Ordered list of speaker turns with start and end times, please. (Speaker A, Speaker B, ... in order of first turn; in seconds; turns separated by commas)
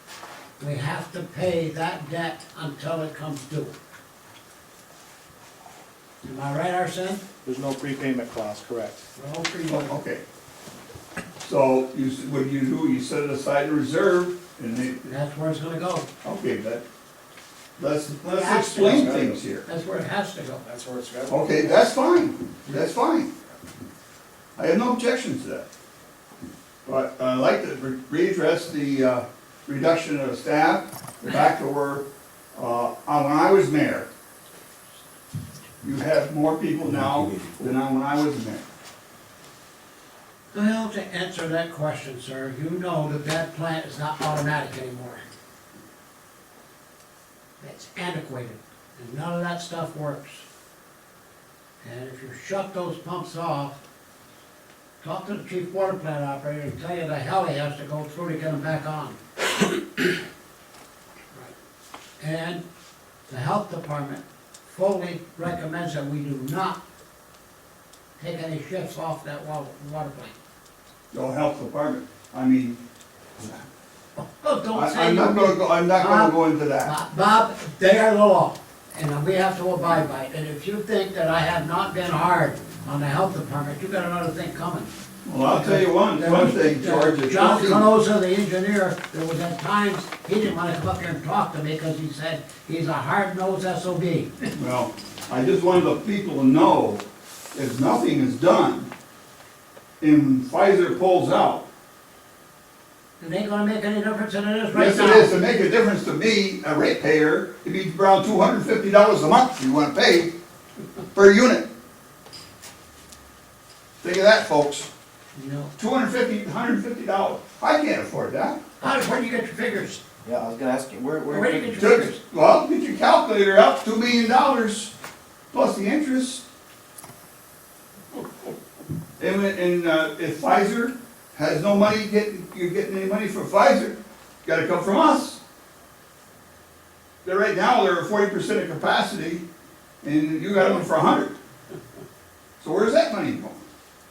Speaker A: 0.6-3.7, Speaker A: 6.2-7.2, Speaker B: 7.4-9.0, Speaker A: 9.2-10.0, Speaker C: 9.7-10.2, Speaker C: 11.4-15.1, Speaker A: 15.1-16.1, Speaker C: 16.2-16.8, Speaker C: 17.8-19.6, Speaker A: 18.2-20.6, Speaker B: 18.7-19.4, Speaker B: 20.6-21.7, Speaker C: 21.3-23.3, Speaker C: 24.6-25.7, Speaker C: 26.8-34.1, Speaker C: 35.8-38.6, Speaker A: 40.5-45.2, Speaker A: 47.6-50.4, Speaker A: 51.8-53.8, Speaker A: 55.0-60.1, Speaker A: 62.2-62.6, Speaker A: 63.3-66.8, Speaker A: 68.2-70.3, Speaker C: 71.1-72.8, Speaker A: 74.2-84.9, Speaker C: 74.7-76.9, Speaker C: 85.2-87.9, Speaker A: 85.5-94.5, Speaker C: 94.5-97.0, Speaker C: 97.5-98.9, Speaker C: 100.0-101.7, Speaker A: 103.2-105.3, Speaker C: 104.7-110.3, Speaker C: 111.1-111.7, Speaker C: 114.0-114.9, Speaker A: 115.3-115.7, Speaker C: 115.8-118.6, Speaker A: 118.8-120.0, Speaker B: 120.2-121.7, Speaker A: 121.3-122.2, Speaker C: 121.8-124.9, Speaker C: 125.5-126.4, Speaker C: 129.2-135.4, Speaker C: 137.2-139.4, Speaker C: 140.0-141.3, Speaker C: 142.6-143.6